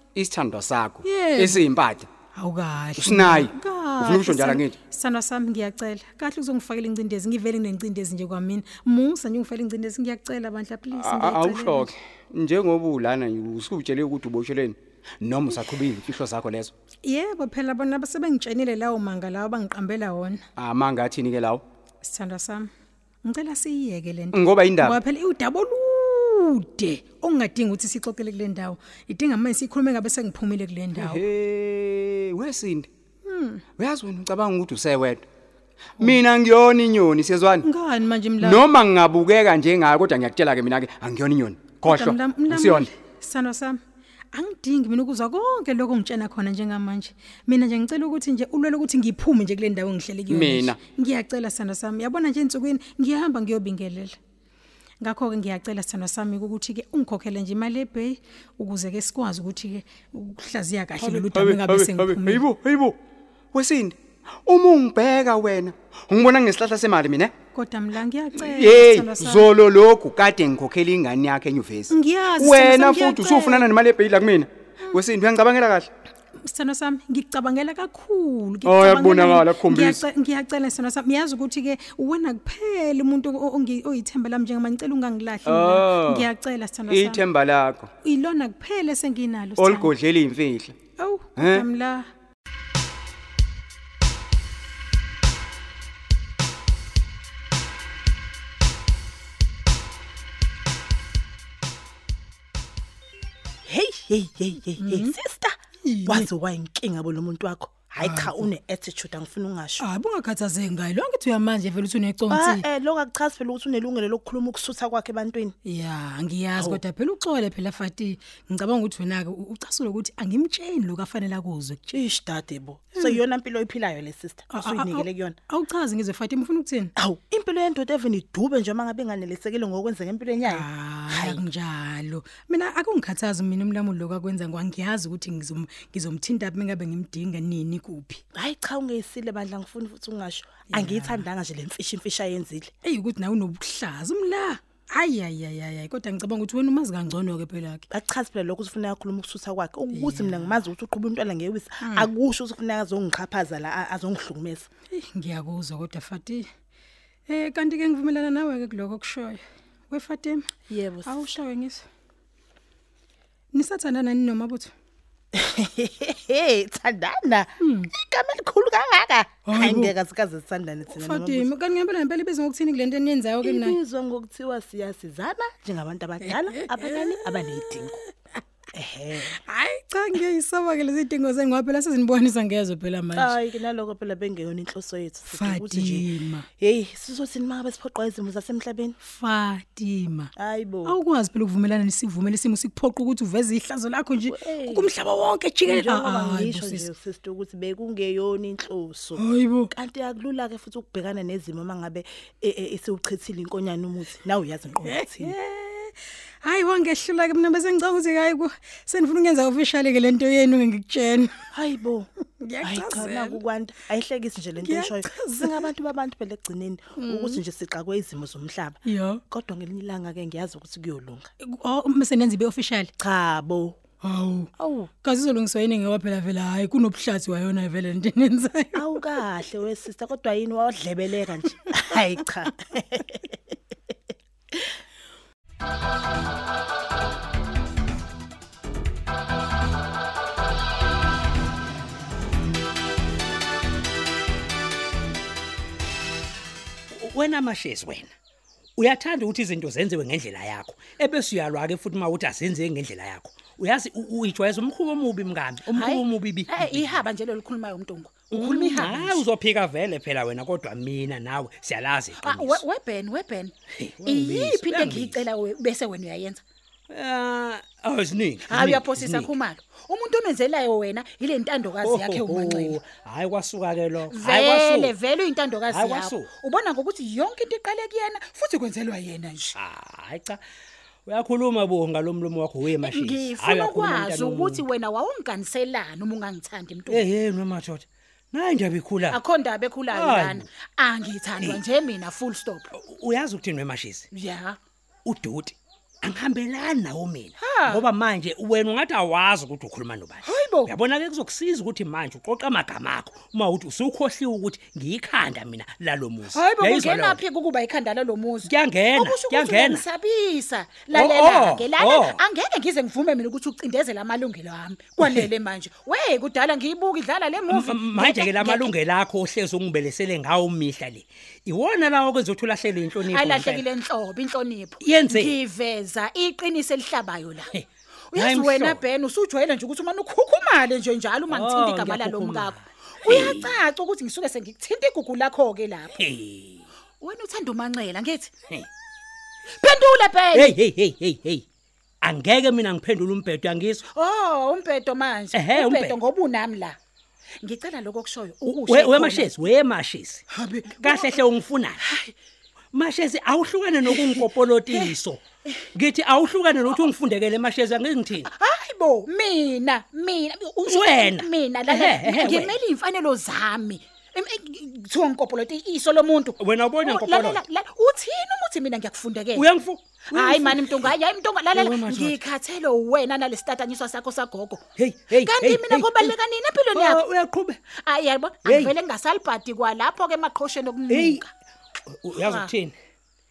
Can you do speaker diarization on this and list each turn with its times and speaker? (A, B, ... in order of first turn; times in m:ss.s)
0:00.2-0:02.1 A
0:01.0-0:01.6 B
0:02.4-0:11.9 B
0:03.0-0:04.8 A
0:10.9-0:16.7 A
0:17.0-0:20.4 B
0:20.6-0:21.6 A
0:22.0-0:22.7 B
0:23.2-0:31.2 B
0:24.3-0:25.0 A
0:30.9-0:32.9 A
0:33.3-0:33.6 B
0:33.8-0:35.2 A
0:36.0-0:37.7 A
0:37.6-0:38.6 B
0:38.4-0:42.9 A
0:41.8-0:43.8 B
0:44.3-0:54.2 B
0:50.3-0:50.8 A
0:55.0-1:02.4 B
1:01.0-1:03.0 A
1:03.5-1:07.3 A
1:07.5-1:09.6 B
1:08.4-1:15.9 A
1:11.9-1:13.6 B
1:16.5-1:27.2 B
1:18.6-1:20.0 A
1:25.4-1:26.3 A
1:26.9-1:27.9 A
1:28.0-1:29.9 B
1:29.6-1:30.8 A
1:31.0-1:32.1 B
1:31.4-1:31.7 A
1:43.7-1:49.8 C
1:44.8-1:45.1 B
1:45.8-1:46.3 B
1:48.0-1:48.5 B
1:49.8-1:52.6 B
1:52.3-1:55.6 C
1:55.6-2:01.9 B
1:56.6-1:56.8 C
2:01.9-2:05.4 C
2:04.5-2:06.9 B
2:07.0-2:11.4 C
2:10.5-2:18.2 B
2:18.4-2:22.7 C
2:20.8-2:21.2 B
2:22.8-2:27.8 B
2:27.9-2:34.7 C
2:29.9-2:30.5 B
2:31.8-2:32.1 B
2:35.0-2:36.5 B
2:37.3-2:41.8 B
2:40.7-2:41.4 C
2:43.5-2:44.7 B
2:45.4-2:51.5 C
2:47.6-2:47.9 B
2:49.5-2:49.9 B
2:50.9-2:53.8 B
2:53.4-2:58.0 C
2:56.2-2:58.0 B
2:58.8-2:59.4 C
2:59.3-3:03.3 B
3:03.1-3:09.0 C
3:05.3-3:06.4 B
3:09.0-3:10.3 B
3:10.4-3:11.0 C
3:10.9-3:16.9 B
3:14.3-3:14.9 C
3:15.6-3:25.4 C
3:19.2-3:19.7 B
3:24.9-3:25.9 B
3:26.4-3:31.3 B
3:31.5-3:32.1 C
3:32.4-3:33.4 B
3:32.6-3:41.3 C
3:34.6-3:35.6 B
3:37.0-3:37.4 B
3:38.9-3:39.2 B
3:41.4-3:42.9 B
3:43.0-3:43.8 C
3:44.0-3:44.5 B
3:44.6-3:44.9 C
3:45.0-3:48.9 B
3:48.7-3:53.6 C
4:06.9-4:08.1 D
4:08.8-4:17.0 D
4:15.7-4:19.2 E
4:18.3-4:22.6 D
4:22.2-4:23.5 E
4:23.8-4:25.2 D
4:24.0-4:26.4 E
4:26.9-4:29.3 D
4:28.5-4:32.8 E
4:31.8-4:34.9 D
4:34.1-4:39.5 E
4:35.7-4:36.3 D
4:39.5-4:40.4 D
4:41.1-4:44.6 D
4:42.8-4:47.0 E
4:46.9-4:49.2 D
4:49.1-4:52.7 E
4:49.9-4:50.4 D
4:52.7-4:54.1 D
4:54.1-4:54.6 E
4:55.0-5:07.2 D
4:57.4-4:57.8 E
5:00.2-5:00.7 E
5:06.3-5:18.7 E
5:08.4-5:09.8 D
5:10.9-5:12.2 D
5:15.0-5:15.3 D
5:17.5-5:23.6 D
5:23.1-5:27.5 E
5:24.8-5:25.4 D
5:27.5-5:28.8 D
5:28.1-5:36.0 E
5:31.3-5:33.6 D
5:36.0-5:36.7 D
5:37.0-5:38.3 E
5:39.6-5:40.6 E
5:40.3-5:41.4 D
5:42.0-5:43.8 D
5:43.9-5:46.8 E
5:45.3-5:46.0 D
5:47.4-5:49.4 E
5:48.4-5:50.2 D
5:50.3-5:51.2 E
5:50.8-5:51.8 D
5:51.8-5:52.1 E
5:52.7-5:55.2 D
5:55.7-5:58.3 D
5:58.3-6:09.5 E
6:00.7-6:02.6 D
6:06.4-6:07.4 D
6:09.3-6:10.9 D
6:10.1-6:14.6 E
6:11.5-6:12.2 D
6:14.8-6:16.2 D
6:15.1-6:17.0 E
6:16.7-6:17.6 D
6:17.8-6:21.3 E
6:18.4-6:18.8 D
6:20.9-6:21.2 D
6:21.9-6:22.8 D
6:22.2-6:22.5 E